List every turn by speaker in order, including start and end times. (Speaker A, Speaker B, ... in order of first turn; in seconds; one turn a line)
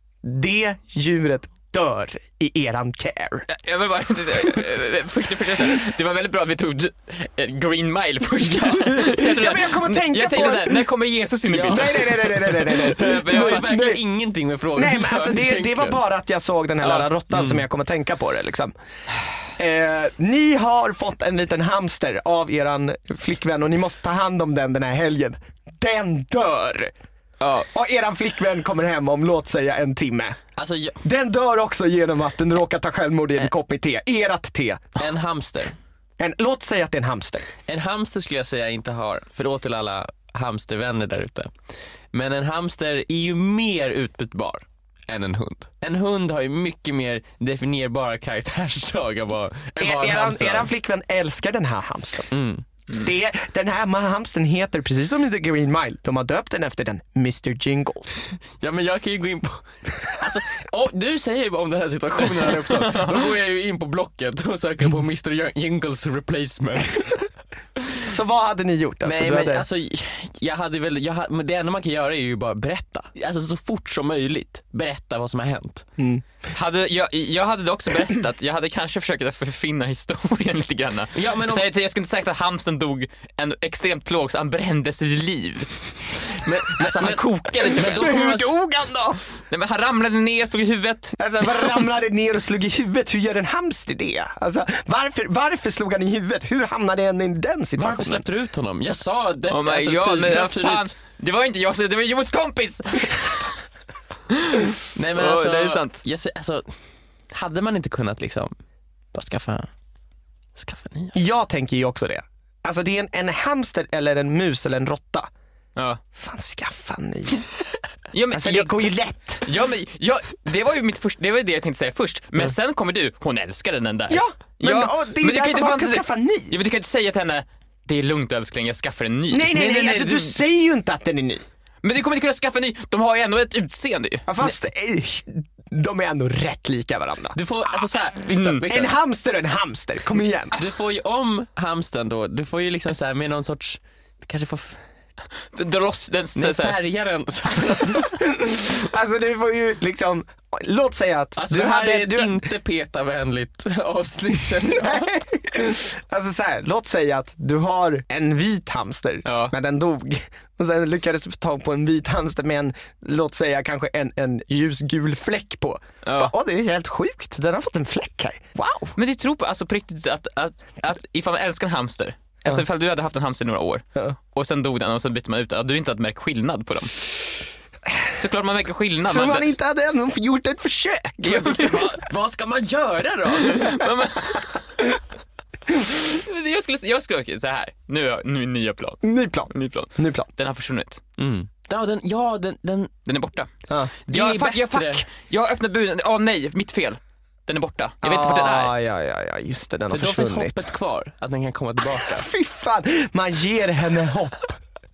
Speaker A: 0.2-3.5
Speaker B: 3.5-13.7
Speaker A: 8.5-10.9
Speaker A: 11.5-14.0
Speaker C: 11.5-16.0
Speaker A: 14.8-18.7
Speaker B: 16.8-17.1
Speaker C: 17.3-17.6
Speaker A: 19.6-26.9
Speaker B: 27.4-27.7
Speaker A: 27.7-30.4
Speaker C: 30.6-31.0
Speaker A: 31.0-35.0
Speaker C: 35.0-35.8
Speaker A: 36.2-37.5
Speaker C: 37.7-41.5
Speaker C: 42.1-50.7
Speaker A: 49.8-52.3
Speaker C: 52.3-52.6
Speaker A: 52.9-58.2
Speaker C: 58.5-67.3
Speaker B: 62.5-63.2
Speaker A: 68.0-69.7
Speaker C: 69.0-75.9
Speaker A: 76.0-76.2
Speaker B: 76.5-88.5
Speaker C: 81.2-81.7
Speaker C: 86.4-88.5
Speaker A: 87.6-89.2
Speaker B: 89.5-91.7
Speaker A: 91.2-98.2
Speaker C: 97.8-100.9
Speaker B: 99.5-103.6
Speaker B: 104.3-106.0
Speaker C: 105.0-106.7
Speaker C: 107.3-108.5
Speaker C: 109.1-109.7
Speaker C: 110.6-111.2
Speaker A: 111.1-115.3
Speaker A: 116.2-117.5
Speaker B: 118.1-118.7
Speaker A: 118.3-119.5
Speaker B: 119.4-129.5
Speaker A: 124.1-126.5
Speaker A: 129.3-131.4
Speaker C: 129.5-130.4
Speaker B: 131.8-134.4
Speaker A: 134.3-137.4
Speaker C: 137.3-138.9
Speaker B: 138.2-138.6
Speaker A: 138.7-140.6
Speaker C: 140.5-144.8
Speaker B: 145.5-146.8
Speaker C: 146.3-148.3
Speaker A: 148.1-152.5
Speaker C: 151.4-155.1
Speaker A: 154.8-168.9
Speaker B: 159.3-159.5
Speaker B: 166.1-166.3
Speaker B: 169.0-177.1
Speaker B: 178.2-179.5
Speaker A: 179.1-181.9
Speaker B: 181.3-181.8
Speaker C: 181.3-183.8
Speaker B: 183.4-184.9
Speaker B: 185.8-191.0
Speaker A: 189.0-190.3
Speaker C: 191.2-192.9
Speaker B: 193.1-193.5
Speaker C: 194.1-195.0
Speaker B: 194.1-198.7
Speaker A: 198.0-200.7
Speaker C: 199.9-202.3
Speaker A: 202.0-204.6